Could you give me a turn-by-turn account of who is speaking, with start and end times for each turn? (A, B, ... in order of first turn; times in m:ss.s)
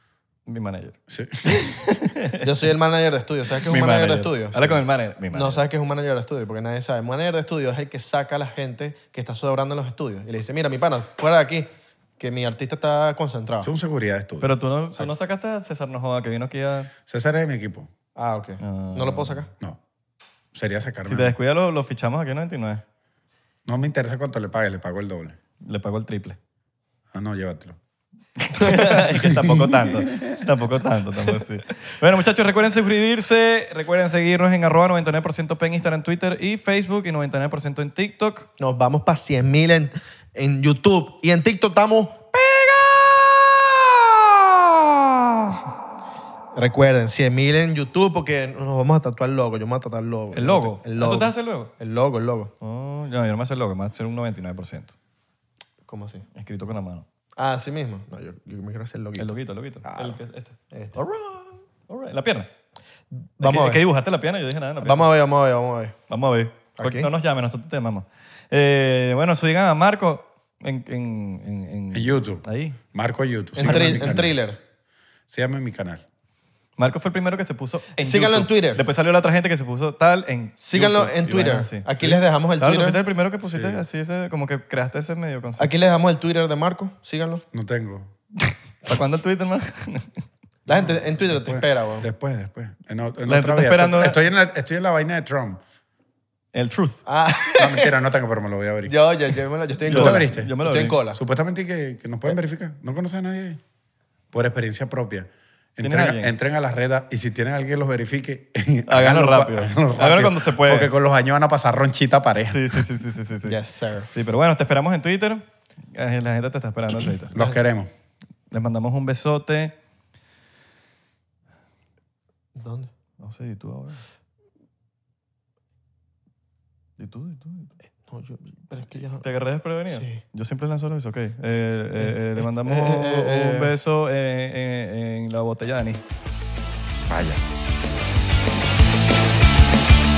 0:00.4-0:02.6 A
0:01.1-0:01.8 B
0:02.4-0:04.8 C
0:03.6-0:05.6 A
0:05.3-0:13.7 C
0:13.6-0:14.5 B
0:14.4-0:16.9 A
0:17.1-0:17.9 B
0:18.2-0:19.5 C
0:18.6-0:19.4 A
0:20.5-0:21.4 B
0:21.0-0:22.8 A
0:23.7-0:25.4 B
0:25.6-0:26.4 A
0:27.1-0:27.8 B
0:28.4-0:38.5 A
0:28.8-0:29.6 B
0:38.6-0:42.3 C
0:42.3-0:45.2 A
0:46.5-0:52.5 C
0:50.3-0:51.7 A
0:52.6-0:54.9 A
0:55.9-0:56.2 C
0:56.3-0:57.0 A
0:57.4-0:59.3 C
0:59.2-1:02.5 A
0:59.8-1:00.2 C
1:03.4-1:03.8 C
1:03.4-1:05.1 A
1:04.8-1:06.0 C
1:06.1-1:12.8 A
1:06.8-1:07.1 C
1:11.9-1:14.3 B
1:13.6-1:14.6 C
1:13.6-1:14.0 A
1:15.3-1:16.0 B
1:16.8-1:25.7 A
1:18.0-1:18.8 C
1:20.6-1:23.0 C
1:23.5-1:23.8 B
1:25.6-1:27.4 C
1:27.5-1:28.1 B
1:28.8-1:30.2 A
1:30.7-1:32.0 C
1:30.7-1:35.6 B
1:33.2-1:34.2 A
1:36.5-1:37.0 A
1:37.0-1:37.9 C
1:37.6-1:38.9 B
1:38.8-1:41.2 C
1:39.8-1:41.0 A
1:39.9-1:40.5 B
1:41.1-1:43.6 B
1:44.3-1:52.8 B
1:45.8-1:46.3 A
1:48.9-1:50.9 A
1:52.5-1:53.6 A
1:53.4-1:54.1 C
1:54.1-1:57.3 A
1:57.3-1:57.9 B
1:58.5-1:59.7 A
2:02.6-2:02.9 C
2:03.2-2:04.0 A
2:07.0-2:07.7 A
2:08.1-2:09.2 C
2:09.2-2:16.0 A
2:09.9-2:10.2 C
2:12.0-2:13.7 C
2:17.1-2:17.4 B